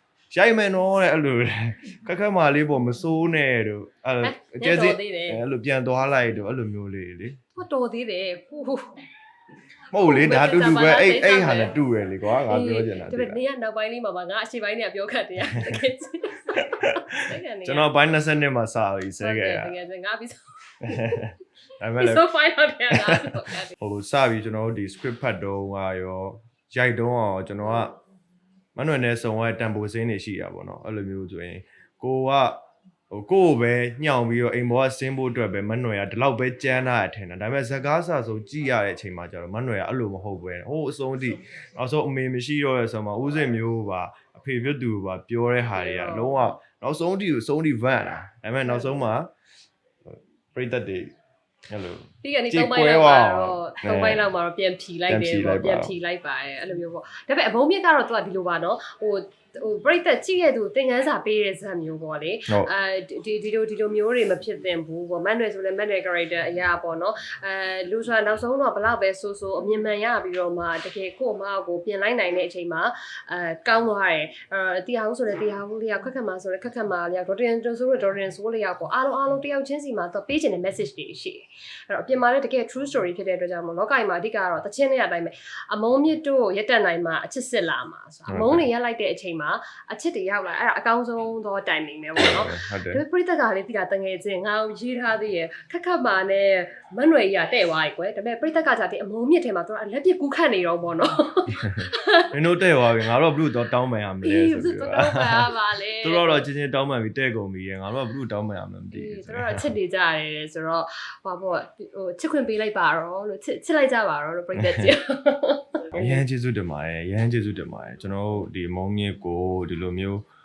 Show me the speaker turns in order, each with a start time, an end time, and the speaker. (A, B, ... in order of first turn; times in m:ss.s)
0:00.3-0:07.4 A
0:04.2-0:05.4 B
0:07.6-0:09.0 B
0:09.9-0:13.4 A
0:10.0-0:11.8 B
0:12.5-0:17.9 B
0:15.5-0:15.8 A
0:16.5-0:19.7 A
0:19.2-0:21.2 B
0:20.8-0:22.3 A
0:22.0-0:23.8 B
0:22.9-0:28.0 A
0:27.6-0:27.9 B
0:28.8-0:49.3 A
0:45.8-0:46.6 B
0:48.6-0:49.1 B
0:50.0-0:51.1 A
0:51.7-0:54.3 A
0:52.2-1:42.3 B
0:55.1-0:55.9 A
1:28.3-1:28.6 A
1:32.2-1:33.0 A
1:42.3-1:49.7 A
1:44.2-1:46.5 B
1:48.9-1:56.2 B
1:54.5-1:54.9 A
1:56.0-2:00.2 A